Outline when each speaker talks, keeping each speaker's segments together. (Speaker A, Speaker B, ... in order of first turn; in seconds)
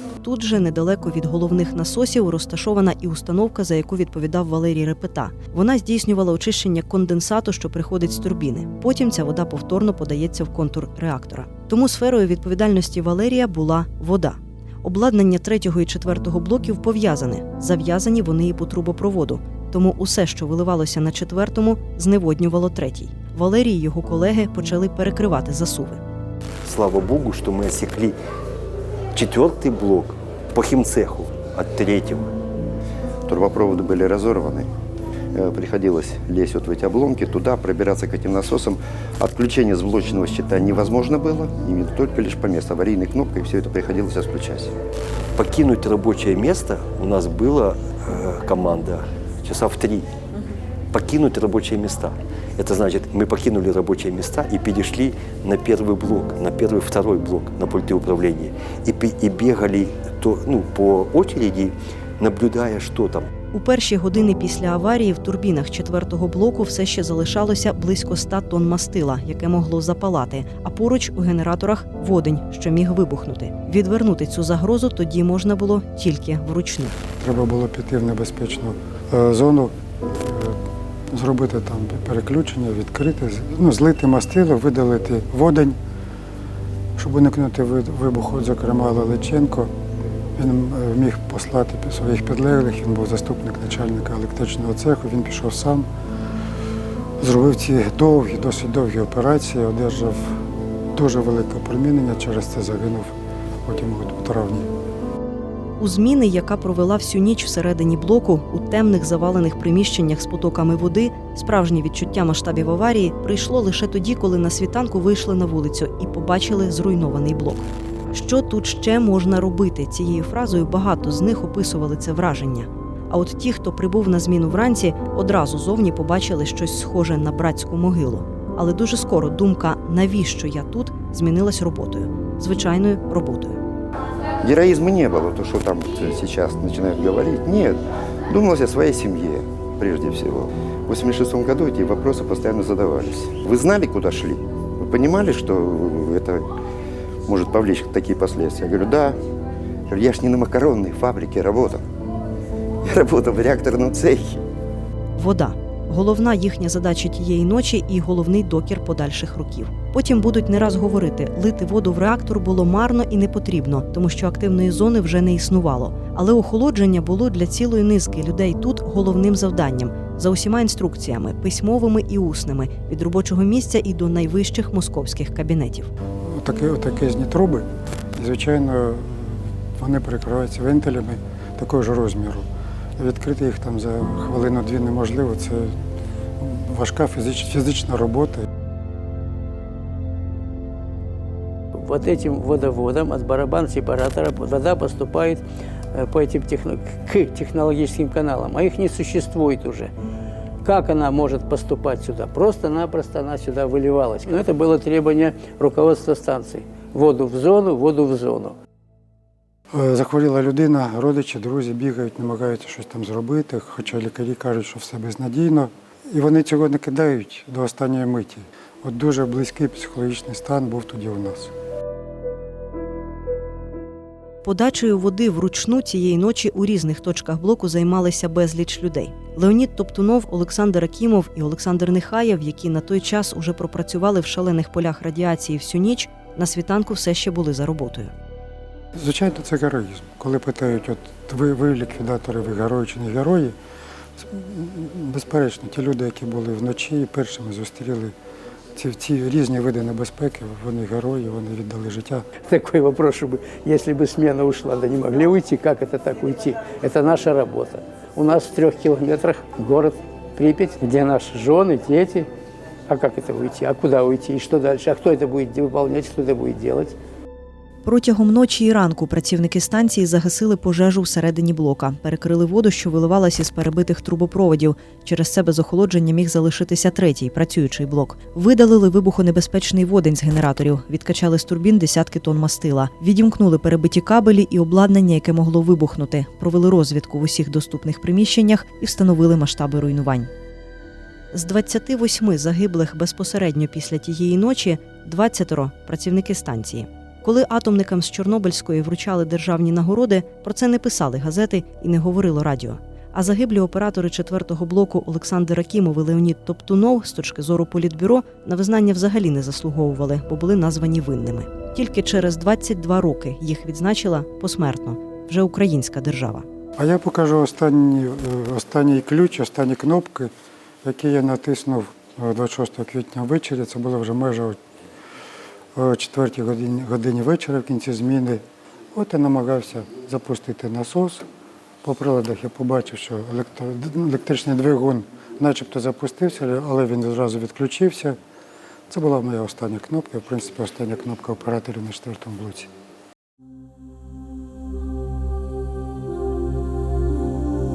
Speaker A: 0.2-26.0, 63.5-77.0, 105.8-133.6, 155.2-175.9, 224.4-238.1, 267.9-290.2, 291.3-316.4
Speaker B: 26.6-28.2, 29.1-32.3, 45.4-50.1, 50.9-63.3
Speaker C: 33.3-34.7, 35.3-44.7, 134.4-146.5, 147.3-149.2, 149.9-151.8, 152.8-154.4
Speaker D: 77.2-80.6, 81.1-85.8, 87.0-89.7, 90.4-95.9, 97.2-100.4, 100.9-103.1, 103.6-104.7, 176.3-182.4, 183.0-185.7, 186.4-188.4, 209.7-221.5, 239.0-243.6, 244.2-248.1, 248.8-252.2, 316.8-320.3, 320.8-324.6, 325.8-328.4, 328.9-331.2, 331.8-338.2, 338.9-342.7
Speaker E: 191.8-195.4, 195.9-199.9, 200.6-208.6, 252.4-262.3, 262.9-266.9